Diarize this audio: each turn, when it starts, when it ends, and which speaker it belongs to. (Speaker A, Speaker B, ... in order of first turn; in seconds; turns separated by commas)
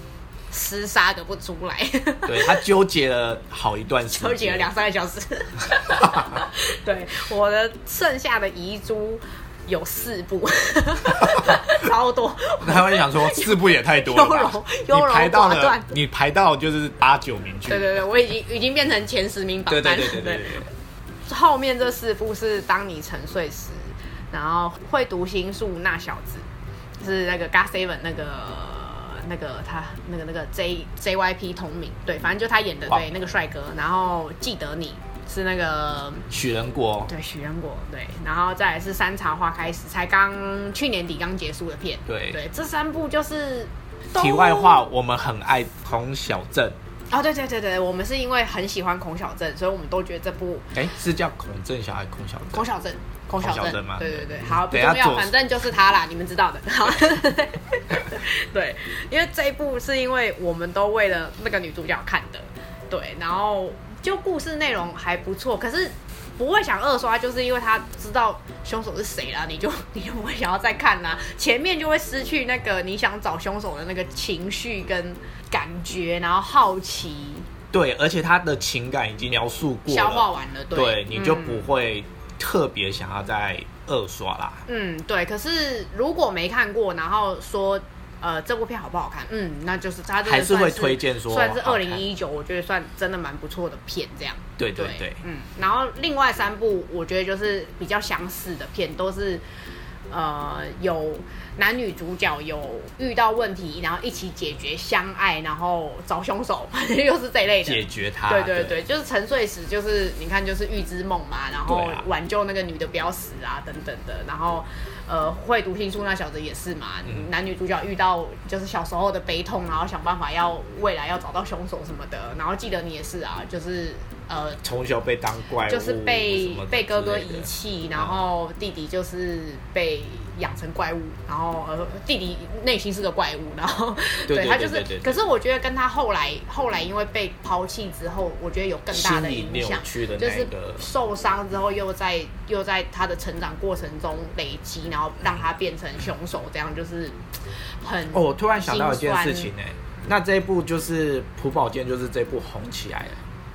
Speaker A: 0.5-2.6, Speaker B: 2.2-4.7, Speaker A: 4.1-15.9, Speaker B: 12.6-17.9, Speaker A: 17.6-20.6, Speaker B: 19.7-20.7, Speaker A: 21.3-26.4, Speaker A: 27.0-36.3, Speaker B: 36.3-37.1, Speaker A: 37.1-44.9, Speaker B: 42.1-42.4, Speaker B: 44.1-46.8, Speaker A: 47.1-50.7, Speaker B: 50.7-52.7, Speaker A: 52.5-77.5, Speaker B: 53.4-55.3, Speaker B: 77.7-84.6, Speaker A: 79.9-81.7, Speaker A: 84.7-99.4, Speaker B: 90.2-92.0, Speaker B: 94.6-95.2, Speaker A: 100.1-124.6, Speaker B: 107.6-108.8, Speaker B: 111.7-112.0, Speaker B: 124.6-128.2, Speaker A: 125.7-147.2, Speaker B: 134.3-135.2, Speaker B: 138.9-140.9, Speaker A: 147.8-149.5, Speaker B: 148.1-153.2